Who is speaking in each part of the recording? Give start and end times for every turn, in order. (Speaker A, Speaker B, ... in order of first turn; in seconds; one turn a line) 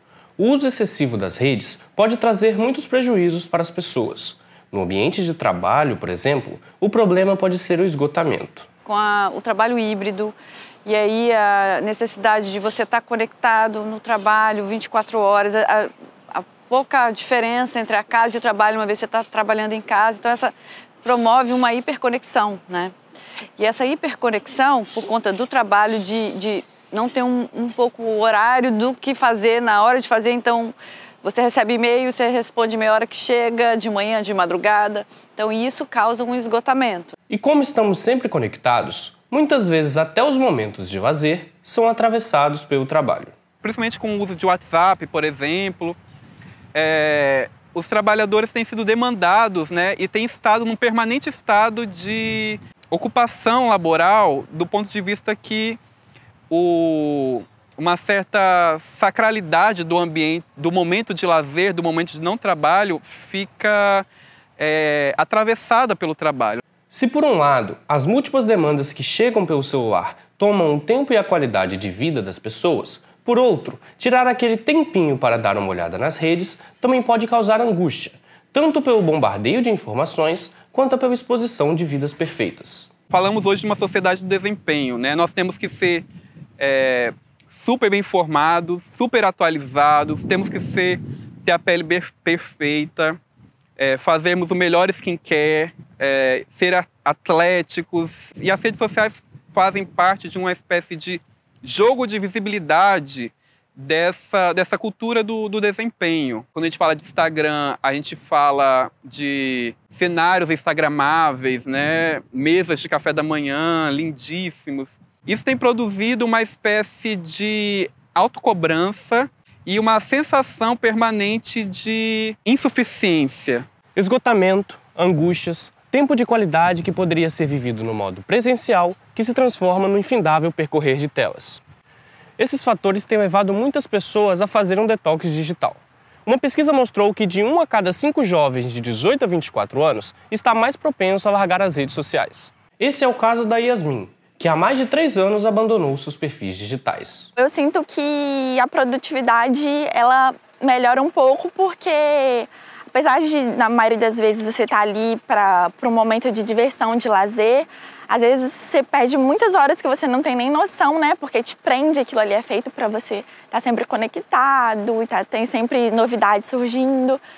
Speaker A: 0.4-8.7
Speaker B: 8.9-22.9
Speaker B: 23.6-37.1
Speaker A: 37.3-43.3
Speaker C: 43.6-46.0
Speaker C: 46.7-55.8
Speaker C: 56.5-64.1
Speaker C: 64.6-66.6
Speaker A: 66.9-82.9
Speaker C: 83.1-86.0
Speaker C: 86.6-93.2
Speaker C: 93.8-123.6
Speaker A: 124.0-131.6
Speaker A: 132.4-147.3
Speaker D: 147.4-167.2